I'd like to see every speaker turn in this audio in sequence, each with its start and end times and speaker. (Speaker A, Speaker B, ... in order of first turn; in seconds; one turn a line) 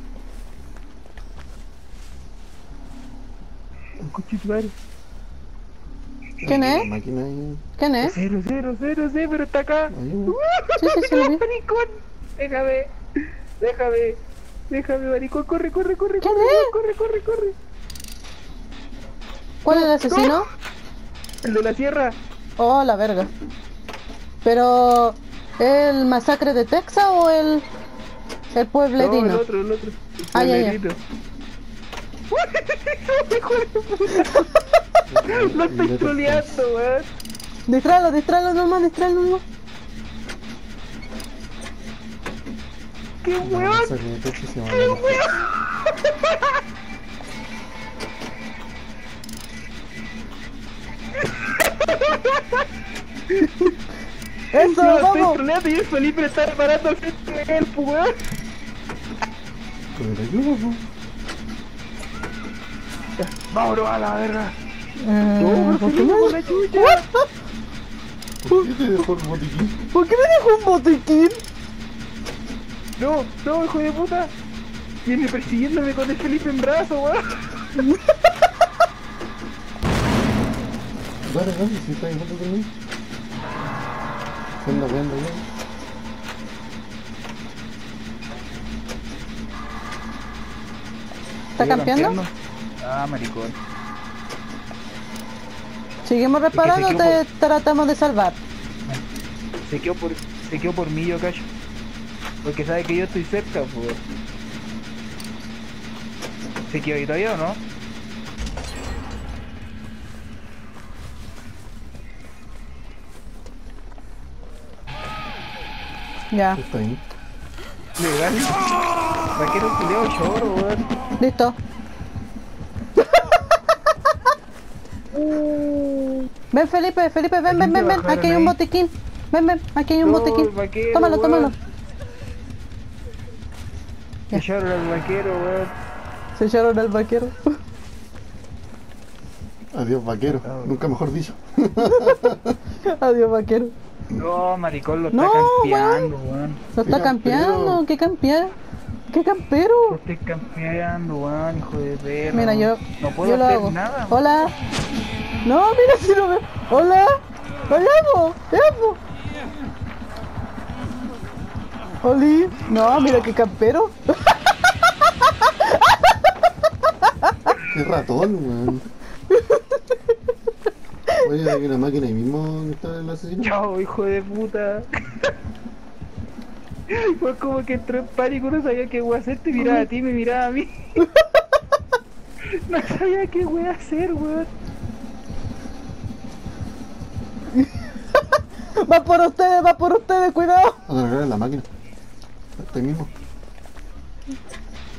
Speaker A: 4.0-4.7
Speaker B: 6.4-7.6
Speaker C: 6.4-6.9
Speaker C: 7.8-8.2
Speaker A: 8.0-12.9
Speaker B: 9.9-10.4
Speaker C: 10.8-11.4
Speaker A: 13.6-17.6
Speaker C: 16.2-16.7
Speaker C: 19.6-20.5
Speaker A: 19.7-20.4
Speaker A: 21.4-22.2
Speaker C: 22.6-23.3
Speaker C: 24.4-27.6
Speaker C: 28.5-29.4
Speaker A: 29.0-31.0
Speaker C: 30.3-30.8
Speaker A: 32.3-34.5
Speaker B: 35.1-36.6
Speaker A: 35.3-37.1
Speaker C: 37.7-39.4
Speaker A: 43.2-44.0
Speaker B: 43.4-45.4
Speaker A: 44.7-46.5
Speaker A: 51.5-52.7
Speaker A: 53.3-53.8
Speaker C: 54.5-55.4
Speaker A: 54.5-58.2
Speaker B: 59.9-60.8
Speaker A: 63.2-64.6
Speaker C: 65.0-67.0
Speaker A: 65.4-67.0
Speaker B: 68.4-69.8
Speaker C: 69.9-71.4
Speaker A: 73.0-74.3
Speaker A: 75.0-77.9
Speaker C: 77.8-78.1
Speaker B: 81.2-82.7
Speaker B: 84.6-85.4
Speaker C: 91.6-92.2
Speaker A: 91.6-92.3
Speaker A: 92.8-93.6
Speaker C: 96.1-98.4
Speaker A: 96.5-97.2
Speaker A: 99.6-101.5
Speaker A: 102.4-104.0
Speaker A: 106.7-107.6
Speaker C: 116.3-116.6
Speaker B: 116.5-117.0
Speaker A: 118.0-118.7
Speaker A: 119.3-120.9
Speaker C: 121.2-121.6
Speaker A: 125.1-126.3
Speaker C: 126.5-131.6
Speaker A: 127.5-128.6
Speaker A: 130.0-131.5
Speaker A: 134.3-135.7
Speaker C: 136.4-137.6
Speaker B: 139.7-142.6
Speaker A: 140.4-140.9
Speaker C: 141.9-142.2
Speaker C: 142.9-143.7
Speaker A: 144.2-146.6
Speaker C: 145.1-146.1
Speaker C: 146.7-148.5
Speaker B: 146.8-147.8
Speaker C: 149.1-150.0
Speaker A: 149.9-154.2
Speaker C: 152.3-154.5
Speaker C: 155.4-159.0
Speaker C: 162.0-164.3
Speaker B: 167.6-168.9
Speaker C: 169.3-169.8
Speaker B: 171.2-173.6
Speaker A: 173.4-175.2
Speaker A: 176.9-180.7
Speaker C: 179.6-179.9
Speaker A: 182.7-184.5
Speaker C: 188.8-190.8
Speaker B: 190.9-191.7
Speaker B: 192.6-193.1